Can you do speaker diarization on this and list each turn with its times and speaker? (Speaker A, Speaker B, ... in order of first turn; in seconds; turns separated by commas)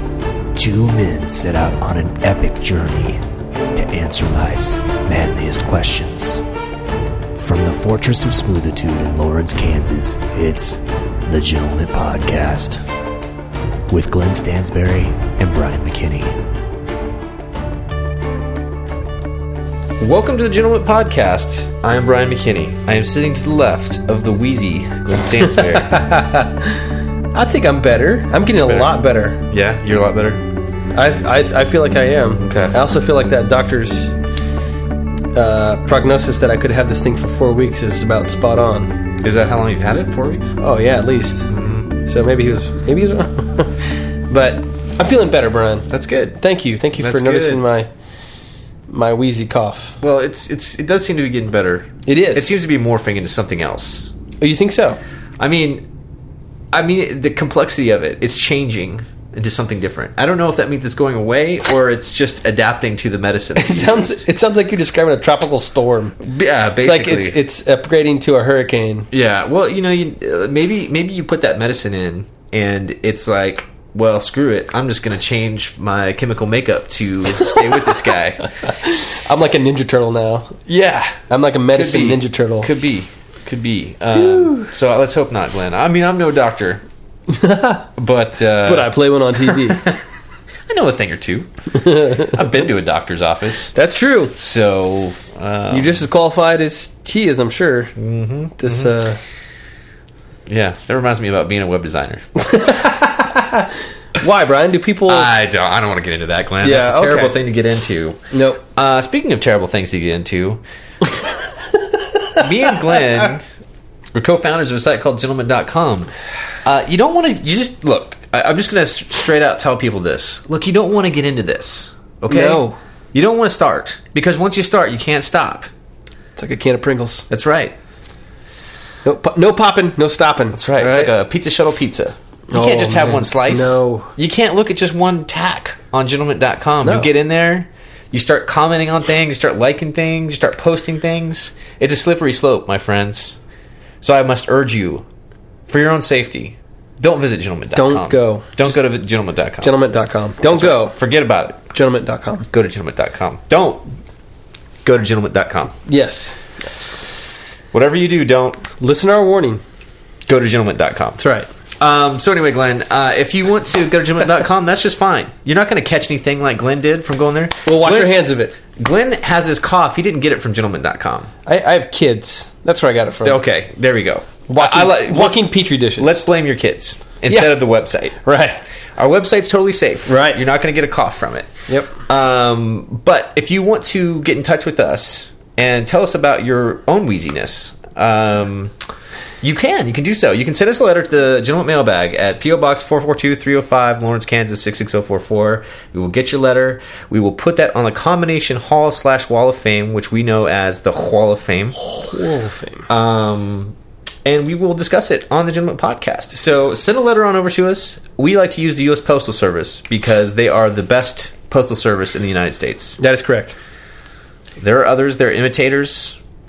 Speaker A: 0.5-3.2, Speaker A: 3.7-6.4, Speaker A: 7.3-12.8, Speaker A: 13.9-16.4, Speaker B: 20.0-26.0, Speaker C: 25.5-29.4, Speaker B: 28.6-28.9, Speaker B: 29.5-30.4, Speaker C: 30.9-34.1, Speaker B: 32.4-32.8, Speaker C: 35.3-38.9, Speaker B: 39.2-40.6, Speaker C: 40.6-41.5, Speaker B: 41.5-41.9, Speaker C: 42.0-45.9, Speaker B: 45.9-46.4, Speaker C: 46.4-47.9, Speaker B: 47.0-47.6, Speaker C: 48.9-50.0, Speaker B: 50.0-54.1, Speaker C: 52.0-52.5, Speaker C: 54.4-55.0, Speaker B: 55.4-55.8, Speaker B: 56.7-64.2, Speaker C: 63.5-66.2, Speaker B: 66.2-67.4, Speaker C: 66.8-69.1, Speaker B: 69.1-78.5, Speaker C: 78.6-80.5, Speaker B: 80.7-81.2, Speaker C: 81.3-82.7, Speaker B: 81.7-86.8, Speaker C: 84.1-84.7, Speaker C: 87.3-87.9, Speaker B: 88.0-90.0, Speaker C: 88.6-89.8, Speaker B: 90.7-91.5, Speaker C: 91.7-92.4, Speaker B: 92.1-93.7, Speaker C: 93.7-94.3, Speaker B: 94.3-96.0, Speaker C: 95.7-97.9, Speaker B: 98.0-98.9, Speaker C: 98.6-99.2, Speaker B: 100.5-102.2, Speaker C: 102.4-105.3, Speaker B: 105.1-110.6, Speaker C: 106.6-107.3, Speaker C: 108.3-108.6, Speaker B: 112.4-113.5, Speaker B: 114.1-116.1, Speaker B: 116.6-125.7, Speaker C: 122.3-122.8, Speaker C: 126.3-127.2, Speaker B: 127.3-127.7, Speaker C: 129.0-131.1, Speaker B: 130.5-143.4, Speaker C: 132.5-134.1, Speaker C: 136.8-137.1, Speaker B: 144.0-145.0, Speaker B: 145.7-149.8, Speaker C: 147.7-148.8, Speaker C: 149.6-150.9, Speaker B: 150.4-151.6, Speaker C: 151.7-152.4, Speaker B: 152.5-153.9, Speaker B: 154.8-155.8, Speaker C: 155.9-156.5, Speaker B: 157.7-158.6, Speaker C: 158.8-159.6, Speaker B: 160.3-161.2, Speaker C: 161.2-161.5, Speaker B: 161.8-171.3, Speaker C: 167.7-168.5, Speaker C: 171.4-173.4, Speaker B: 173.2-178.2, Speaker C: 174.5-176.2, Speaker C: 177.3-177.5, Speaker C: 178.2-178.6, Speaker B: 179.0-188.7, Speaker C: 180.1-180.4, Speaker C: 181.7-181.9, Speaker B: 189.4-201.8, Speaker C: 201.8-202.8, Speaker B: 202.9-213.0, Speaker C: 213.0-213.6, Speaker B: 214.6-216.2